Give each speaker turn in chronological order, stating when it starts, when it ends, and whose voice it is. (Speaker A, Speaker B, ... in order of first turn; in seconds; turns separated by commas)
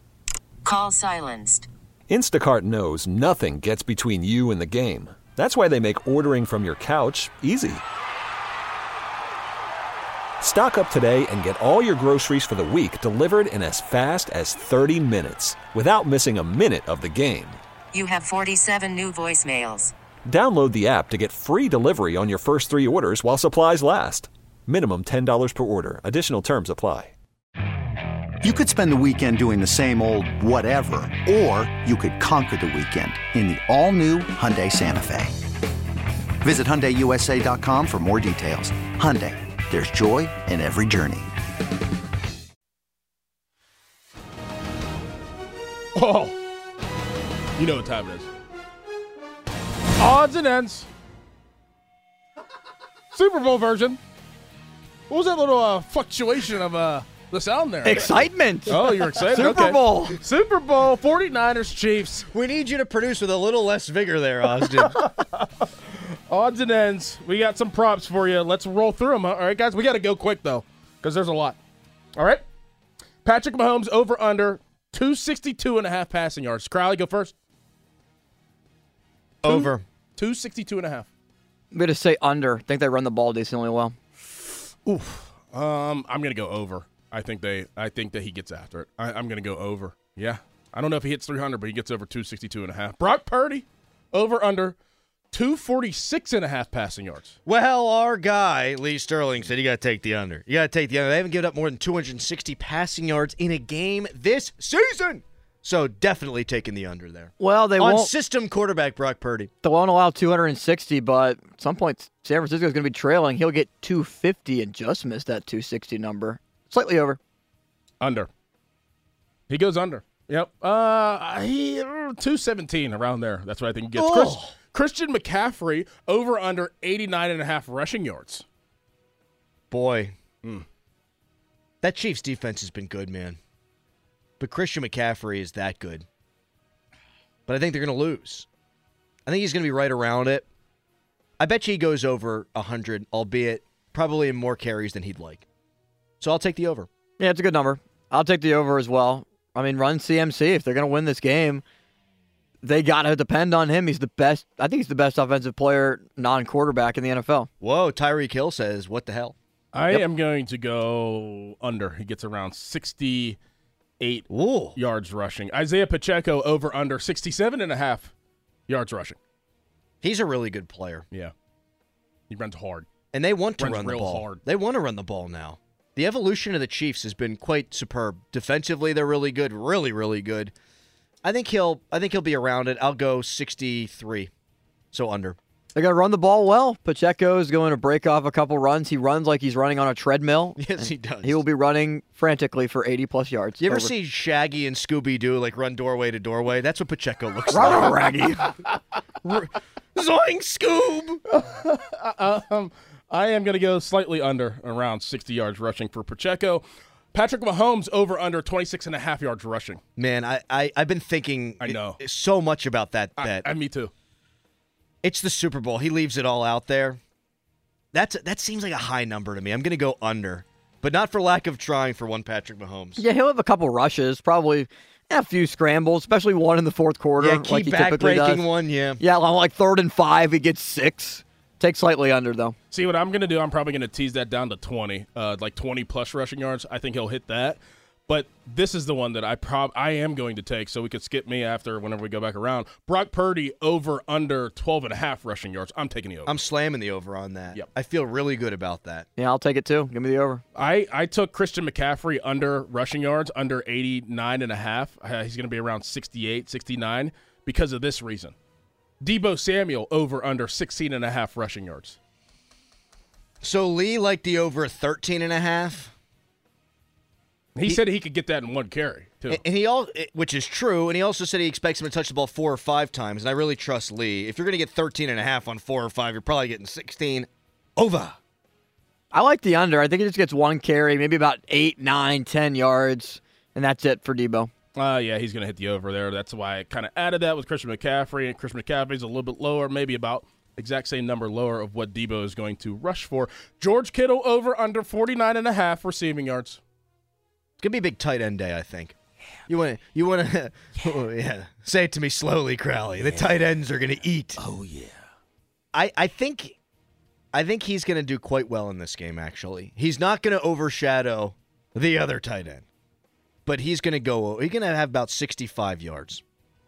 Speaker A: 0.6-1.7, Speaker B: 2.1-7.8, Speaker B: 10.4-17.6, Speaker A: 17.9-19.9, Speaker B: 20.2-27.1, Speaker C: 28.4-35.3, Speaker C: 36.4-41.3, Speaker D: 46.0-46.4, Speaker D: 47.6-48.3, Speaker D: 50.0-50.9, Speaker D: 53.1-54.0, Speaker D: 55.1-62.2, Speaker E: 57.8-60.2, Speaker F: 62.3-64.9, Speaker D: 64.6-71.6, Speaker D: 72.2-72.4, Speaker D: 73.2-77.3, Speaker F: 79.4-79.8, Speaker D: 79.4-81.1, Speaker E: 81.7-84.0, Speaker D: 84.8-94.8, Speaker D: 95.3-97.3, Speaker F: 97.4-109.5, Speaker E: 107.4-108.1, Speaker E: 109.6-117.2, Speaker D: 118.0-118.3, Speaker D: 119.5-128.4, Speaker F: 123.9-124.5, Speaker F: 129.7-130.2, Speaker F: 131.8-133.4, Speaker F: 134.4-136.1, Speaker F: 137.5-138.5, Speaker F: 139.3-140.5, Speaker F: 141.4-145.5, Speaker F: 146.2-146.9, Speaker E: 147.2-151.6, Speaker E: 152.6-157.5, Speaker F: 157.6-159.3, Speaker D: 159.7-163.4, Speaker D: 164.0-168.1, Speaker F: 164.3-164.8, Speaker D: 168.7-169.2, Speaker F: 170.0-171.0, Speaker D: 172.3-172.9, Speaker F: 173.1-180.5, Speaker D: 173.6-174.4, Speaker F: 181.2-184.3, Speaker F: 184.9-185.4, Speaker E: 185.8-193.9, Speaker F: 190.6-191.4, Speaker F: 193.6-198.0, Speaker E: 197.5-198.4, Speaker F: 199.2-201.2, Speaker D: 201.3-209.8, Speaker F: 210.0-213.4, Speaker D: 211.6-212.0, Speaker D: 213.2-213.9, Speaker F: 215.0-217.0, Speaker F: 217.9-223.0, Speaker E: 223.0-228.5, Speaker F: 227.2-229.0, Speaker E: 229.0-232.6, Speaker D: 232.7-246.3, Speaker F: 246.3-249.1, Speaker E: 249.2-250.4, Speaker D: 250.6-258.4, Speaker D: 259.0-262.0, Speaker F: 263.4-265.9, Speaker D: 267.6-269.4, Speaker F: 269.3-278.2, Speaker E: 279.1-284.5, Speaker D: 284.8-296.6, Speaker F: 297.6-298.9, Speaker F: 299.5-304.4, Speaker D: 304.5-304.9, Speaker F: 305.7-306.6, Speaker F: 307.3-312.6, Speaker F: 313.4-316.2